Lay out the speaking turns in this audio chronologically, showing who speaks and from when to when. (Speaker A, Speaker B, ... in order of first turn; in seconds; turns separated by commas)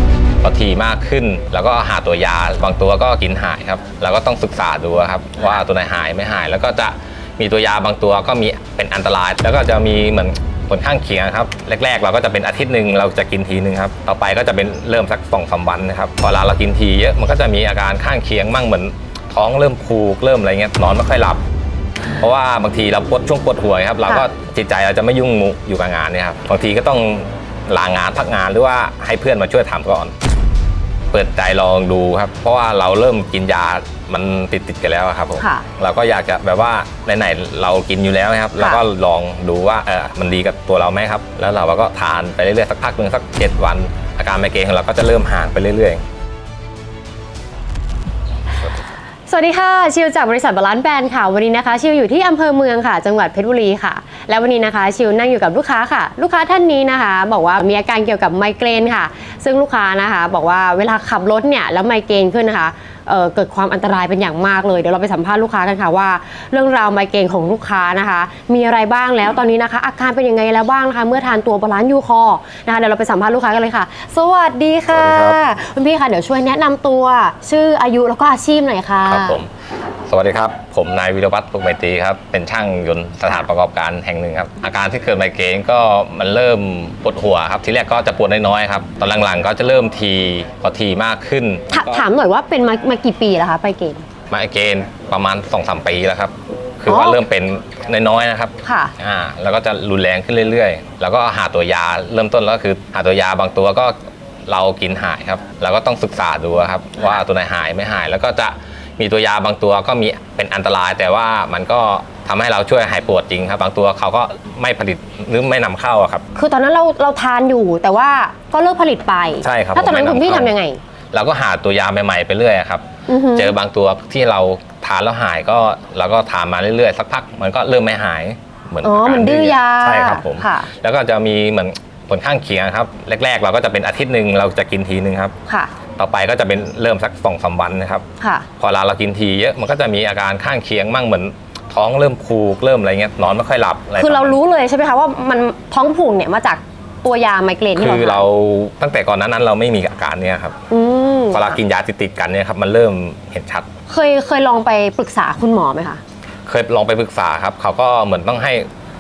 Speaker A: 0.4-21.4, Speaker A: 22.2-30.1, Speaker A: 31.1-46.0, Speaker B: 35.4-35.7, Speaker B: 49.3-79.4, Speaker A: 74.9-75.4, Speaker A: 79.1-79.5, Speaker A: 80.1-92.0, Speaker B: 91.7-94.1, Speaker A: 94.3-104.0, Speaker B: 96.9-97.2, Speaker B: 98.6-98.9, Speaker A: 104.5-116.3, Speaker B: 116.3-120.8, Speaker A: 119.4-120.5, Speaker A: 121.1-135.4, Speaker B: 123.1-123.5, Speaker B: 128.8-130.7, Speaker A: 136.0-138.1, Speaker B: 138.2-138.5, Speaker A: 138.6-144.4, Speaker B: 144.0-148.3, Speaker A: 147.8-150.6, Speaker B: 150.7-151.6, Speaker A: 151.3-153.7, Speaker B: 153.9-156.0, Speaker A: 156.5-158.7